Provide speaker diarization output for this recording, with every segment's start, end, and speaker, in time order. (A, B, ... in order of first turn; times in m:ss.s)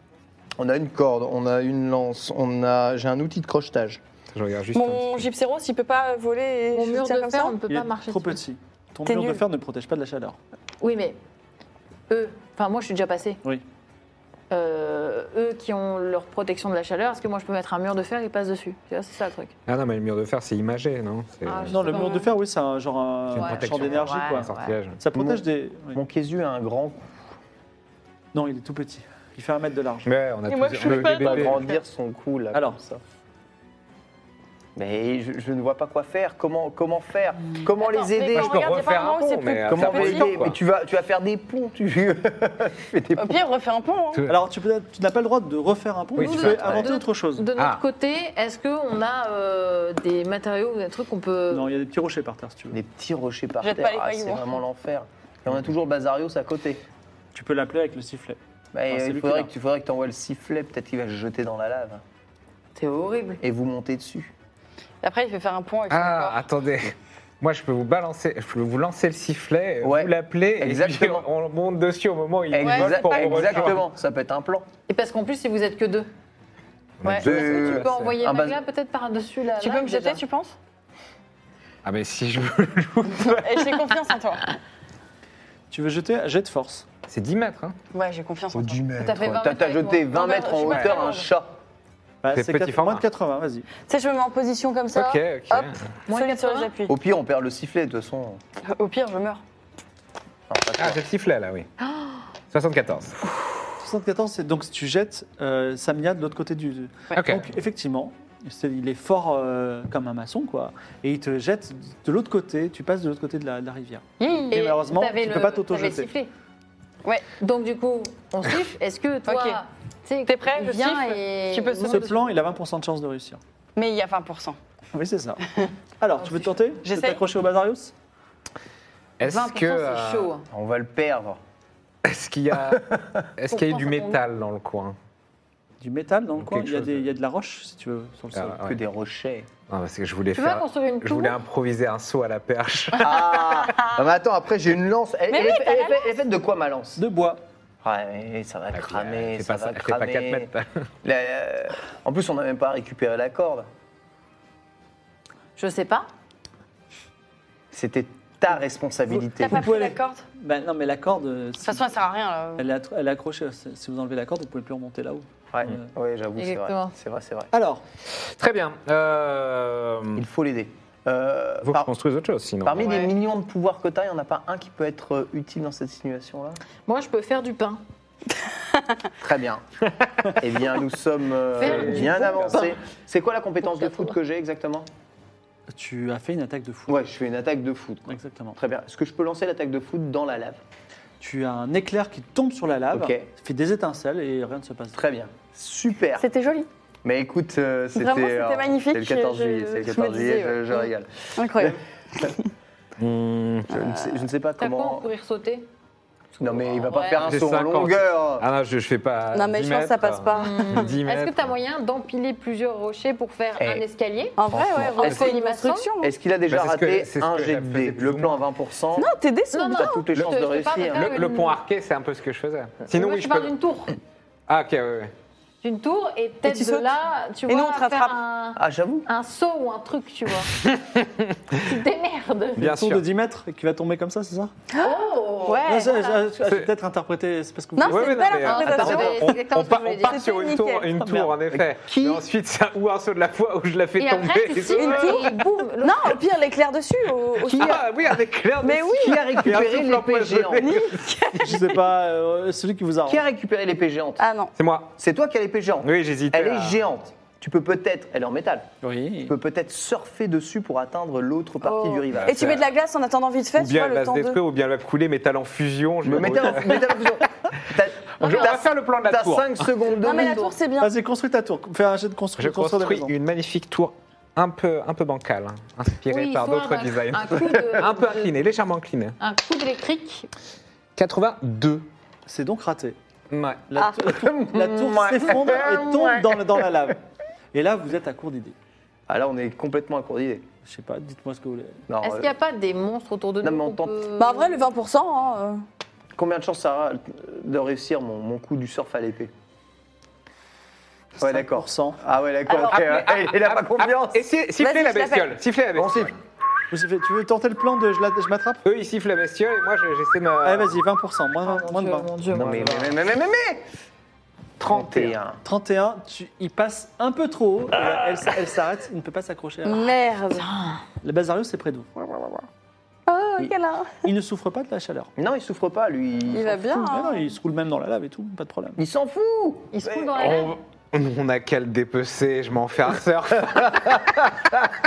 0:00.6-0:04.0 A
0:04.3-0:05.3 B
0:04.7-0:07.6 C
0:06.7-0:08.4 D
0:07.7-0:10.4 E
0:09.0-0:09.4 C
0:10.8-0:11.2 D
0:12.1-0:13.4 D
0:14.5-0:19.5 D
0:19.7-0:22.0 B
0:21.4-0:22.3 D
0:21.7-0:26.0 E
0:23.3-0:25.0 B
0:23.3-0:24.8 D
0:25.1-0:27.2 A
0:28.3-0:30.1 E
0:30.0-0:31.6 B
0:30.5-0:31.8 C
0:30.8-0:33.0 A
0:34.8-0:38.7 A
0:37.8-0:40.4 C
0:38.3-0:40.6 B
0:39.7-0:43.4 A
0:43.2-0:44.2 C
0:44.3-0:47.5 E
0:46.2-0:46.8 B
0:46.2-0:51.7 D
0:46.4-0:46.9 A
0:47.6-0:47.8 B
0:51.5-0:52.8 E
0:52.7-0:56.8 A
0:53.6-0:54.6 C
0:57.3-0:58.4 E
0:58.7-1:02.0 A
0:58.9-0:59.5 E
1:02.8-1:03.4 D
1:03.4-1:04.3 A
1:05.0-1:06.4 C
1:05.9-1:13.8 B
1:09.8-1:11.3 A
1:12.5-1:14.7 A
1:12.6-1:13.8 C
1:14.9-1:16.1 D
1:17.0-1:18.2 B
1:17.0-1:17.3 C
1:17.1-1:18.6 A
1:17.4-1:20.2 D
1:19.6-1:20.6 C
1:21.8-1:23.7 B
1:23.2-1:24.4 C
1:25.7-1:26.9 E
1:27.1-1:27.8 B
1:27.9-1:28.8 C
1:28.5-1:31.6 A
1:29.0-1:30.2 D
1:30.1-1:31.3 C
1:30.6-1:31.0 B
1:32.2-1:33.7 E
1:32.3-1:33.0 B
1:33.9-1:36.9 C
1:34.9-1:35.9 B
1:36.1-1:36.7 D
1:36.9-1:38.4 A
1:38.7-1:39.4 C
1:40.5-1:41.0 A
1:40.8-1:41.7 B
1:42.5-1:43.2 B
1:43.8-1:56.1 E
1:47.1-1:47.5 B
1:54.2-1:54.7 C
1:54.5-1:56.3 D
1:57.4-2:02.2 D
1:59.3-1:59.6 C
2:00.2-2:02.1 C
2:01.9-2:03.4 E
2:03.8-2:04.6 C
2:04.9-2:07.9 E
2:06.8-2:07.2 C
2:09.2-2:10.3 B
2:09.2-2:10.4 D
2:10.5-2:11.4 A
2:12.0-2:15.0 B
2:12.7-2:13.2 A
2:13.5-2:14.2 D
2:15.8-2:18.6 E
2:16.4-2:17.0 B
2:18.3-2:18.8 B
2:18.6-2:19.5 A
2:19.7-2:23.4 B
2:20.3-2:21.4 D
2:23.0-2:27.0 A
2:25.3-2:26.1 C
2:27.0-2:27.4 E
2:27.8-2:30.5 A
2:28.7-2:30.8 B
2:31.0-2:33.7 A
2:35.6-2:36.1 D
2:37.7-2:39.6 A
2:39.1-2:41.8 E
2:39.4-2:40.2 C
2:41.6-2:42.6 C
2:42.6-2:45.9 E
2:45.5-2:47.5 A
2:46.4-2:46.9 D
2:47.5-2:47.8 E
2:48.2-2:50.2 B
2:50.2-2:51.9 A
2:51.6-2:53.0 B
2:52.6-2:56.6 A
2:56.8-2:57.8 D
2:59.2-2:59.6 A
3:00.4-3:04.9 A
3:01.6-3:02.7 D
3:01.6-3:02.6 B
3:05.7-3:07.0 E
3:06.9-3:10.6 A
3:08.1-3:08.6 E
3:11.2-3:15.0 E
3:12.9-3:13.3 A
3:14.9-3:16.2 A
3:16.2-3:16.7 C
3:17.0-3:21.8 A
3:18.0-3:22.5 C
3:23.0-3:23.8 B
3:23.7-3:25.1 A
3:23.8-3:24.2 C
3:24.6-3:25.6 D
3:26.4-3:28.4 A
3:26.6-3:27.2 D
3:27.2-3:31.5 B
3:29.3-3:30.9 C
3:30.3-3:34.4 D
3:33.6-3:33.8 A
3:34.4-3:36.1 C
3:34.5-3:35.3 A
3:35.0-3:35.9 D
3:36.0-3:39.1 A
3:36.5-3:38.4 B
3:38.9-3:40.0 C
3:39.5-3:41.6 D
3:39.6-3:41.2 A
3:40.9-3:43.5 B
3:42.9-3:43.9 D
3:44.5-3:45.1 B
3:45.6-3:50.5 D
3:46.4-3:47.0 C
3:47.5-3:48.2 C
3:48.6-3:49.1 A
3:50.6-3:51.7 B
3:51.6-3:52.7 D
3:52.6-3:53.0 B
3:52.6-3:54.5 E
3:54.7-3:56.2 C
3:54.8-3:56.1 D
3:55.6-3:59.0 E
3:56.4-3:56.7 B
3:57.8-3:59.3 C
3:57.9-4:05.3 B
3:58.4-4:00.3 D
4:00.0-4:01.3 C
4:01.9-4:02.2 D
4:04.0-4:06.1 D
4:04.7-4:07.8 C
4:07.5-4:07.9 A
4:07.5-4:10.9 B
4:08.6-4:09.5 C
4:08.9-4:10.7 A
4:10.6-4:11.8 C
4:11.3-4:13.2 E
4:13.0-4:14.2 A
4:14.2-4:14.5 C
4:14.6-4:14.9 B
4:15.0-4:18.7 A
4:15.8-4:16.8 B
4:18.8-4:19.3 E
4:19.2-4:22.6 A
4:21.6-4:22.0 D
4:22.1-4:22.6 B
4:22.2-4:24.4 C
4:23.6-4:27.1 B
4:26.0-4:30.5 A
4:28.2-4:29.6 B
4:28.2-4:28.5 D
4:30.0-4:30.9 C
4:30.0-4:30.5 D
4:30.8-4:33.1 E
4:32.4-4:39.2 B
4:36.1-4:38.3 D
4:39.2-4:40.3 D
4:41.0-4:41.9 B
4:42.3-4:43.0 E
4:43.3-4:43.7 B
4:43.7-4:47.0 E
4:43.8-4:46.3 A
4:47.5-4:48.5 E
4:49.1-4:50.4 A
4:50.6-4:51.8 E
4:51.9-4:52.3 A
4:52.0-4:54.6 D
4:53.4-4:54.0 A
4:54.2-4:55.6 C
4:56.2-4:59.3 A
5:01.2-5:02.0 E
5:01.2-5:04.2 A
5:02.5-5:02.9 C
5:02.7-5:06.2 B
5:04.6-5:05.4 C
5:05.7-5:06.1 A
5:06.7-5:08.6 E
5:08.6-5:10.8 B
5:10.4-5:12.9 E
5:11.4-5:12.6 D
5:12.3-5:13.6 A
5:14.6-5:15.2 B
5:14.6-5:15.4 A
5:15.4-5:19.9 E
5:19.6-5:20.4 C
5:20.4-5:20.8 D
5:21.0-5:22.4 E
5:23.1-5:24.1 C
5:24.0-5:25.1 E
5:25.2-5:26.7 A
5:26.3-5:27.3 C
5:26.7-5:28.8 E
5:28.8-5:30.4 A
5:29.7-5:30.5 D
5:30.1-5:34.3 B